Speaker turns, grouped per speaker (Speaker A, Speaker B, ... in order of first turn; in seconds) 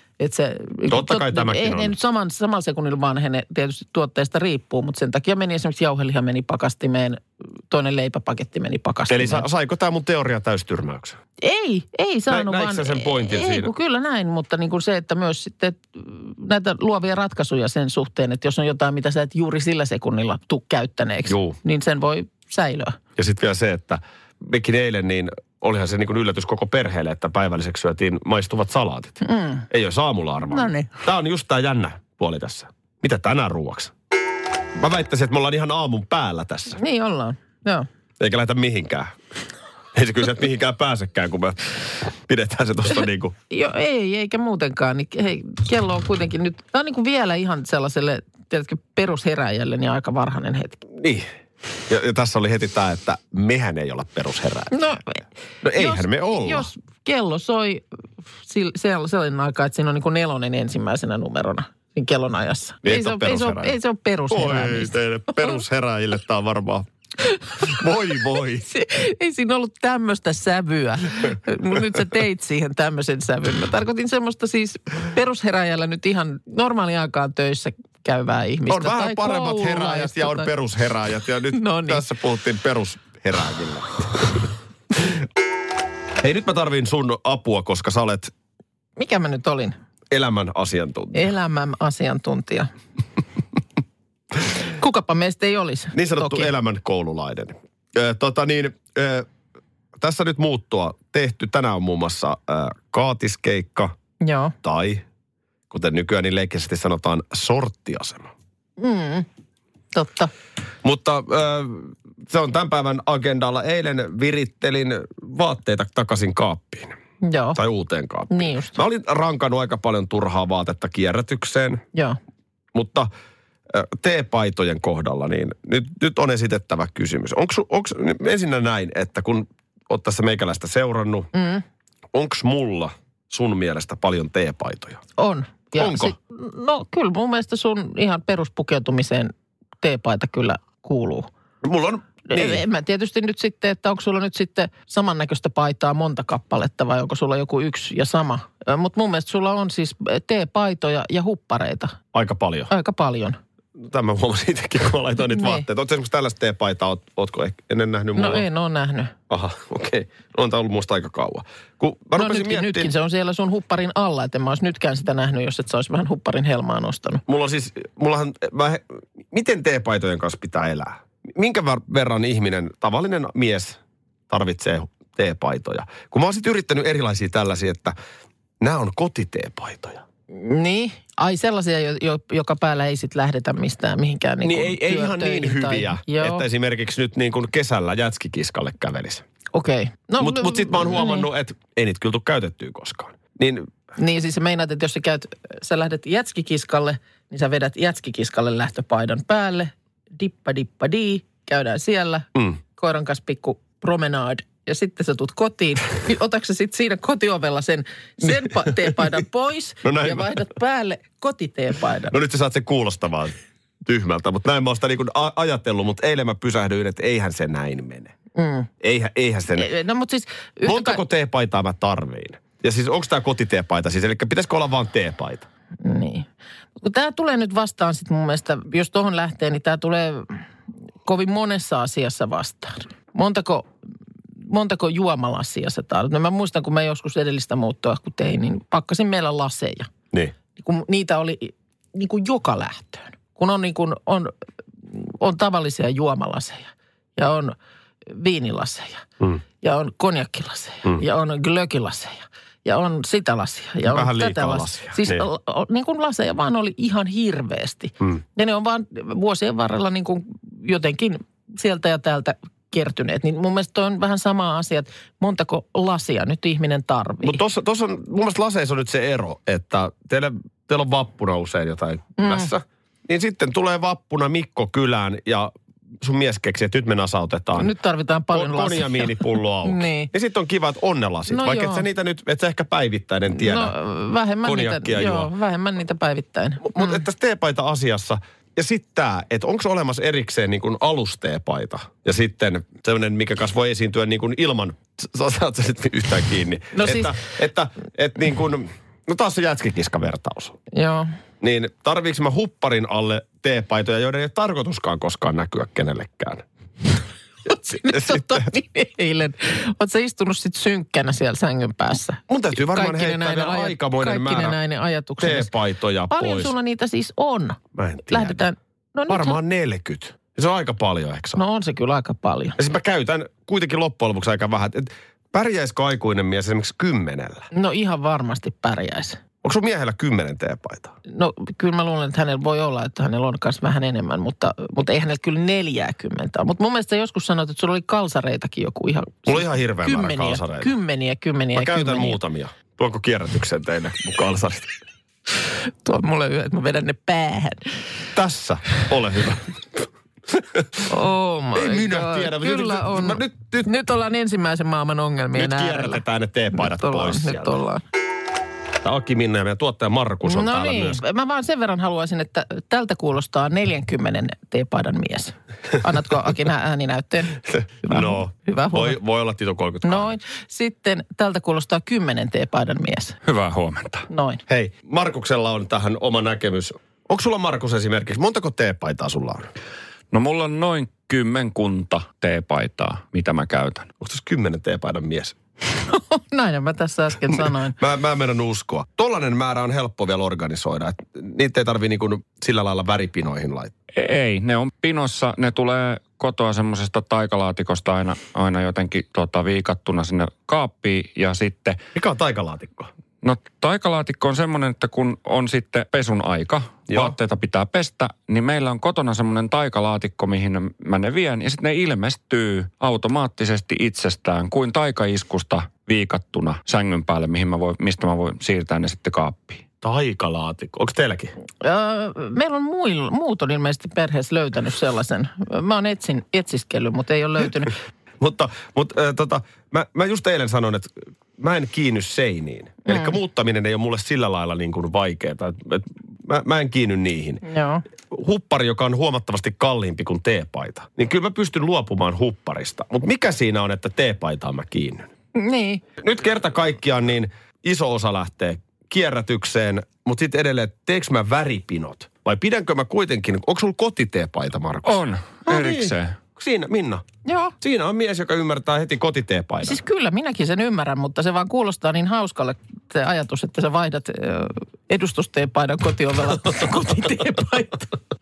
Speaker A: 0.2-9.4, 11.4-23.0, 29.2-29.6, 30.5-31.0, 36.8-37.9, 43.5-50.8, 54.7-57.8, 58.4-65.6, 67.2-67.8, 68.6-80.5, 81.5-82.0, 89.0-89.7, 91.1-92.7, 94.5-96.5, 104.2-104.5, 108.8-109.2, 109.9-110.3, 117.2-117.6, 118.3-118.8, 121.9-122.2, 131.3-131.6, 135.2-141.3, 142.3-152.0, 152.7-153.4, 155.3-155.7, 158.2-159.1, 162.2-167.2, 180.3-186.4, 189.5-191.3, 194.0-212.2, 218.3-218.7, 219.5-221.0, 225.8-230.4, 231.0-233.7, 234.5-239.9, 240.6-244.3, 244.9-247.6, 248.1-249.0, 249.6-267.4, 272.2-272.5, 277.6-280.1, 281.3-281.8, 283.3-287.0, 296.7-297.1, 300.7-301.1, 307.4-315.5, 316.1-319.4, 321.4-322.6, 327.5-329.2, 331.1-342.2, 345.7-347.8, 350.9-356.0, 356.5-357.8, 360.2-369.0, 369.8-373.2, 374.1-374.4, 385.8-387.8, 421.6-427.7, 432.9-433.1, 437.4-437.8, 445.3-445.8, 457.2-457.5, 459.6-467.9
Speaker B: 0.9-1.9, 9.1-11.2, 12.3-13.7, 21.2-21.6, 23.2-33.9, 34.8-36.8, 38.2-39.1, 39.9-43.3, 51.0-51.3, 51.9-54.7, 55.6-56.7, 62.8-63.8, 64.3-66.8, 67.6-68.7, 78.7-84.5, 86.2-88.3, 90.1-91.3, 95.9-99.3, 100.0-103.9, 104.6-105.0, 105.7-108.3, 110.8-116.9, 117.5-121.8, 122.7-123.1, 123.7-131.3, 132.1-135.0, 135.8-136.1, 141.6-142.6, 152.1-152.7, 153.8-158.4, 159.3-162.9, 167.3-173.8, 174.3-177.9, 178.6-180.0, 184.4-189.2, 190.2-193.7, 202.3-202.6, 208.2-209.2, 209.8-210.5, 212.1-218.1, 218.8-219.7, 220.6-225.5, 253.8-255.2, 267.2-277.7, 278.3-283.7, 284.4-285.3, 286.6-300.6, 301.4-306.4, 307.7-308.4, 312.3-314.6, 315.2-316.5, 317.7-318.4, 319.1-321.4, 322.6-327.5, 329.4-330.9, 339.2-340.7, 341.5-344.7, 348.1-350.9, 351.5-353.7, 355.3-357.6, 358.8-361.0, 367.4-370.2, 374.5-379.5, 384.0-385.4, 387.3-393.7, 401.9-402.9, 406.9-407.1, 419.8-421.3, 428.2-437.4, 438.1-445.1, 446.0-457.0, 457.6-459.8
Speaker C: 373.2-374.1, 380.1-383.9, 393.9-401.8, 403.2-419.6, 454.9-456.1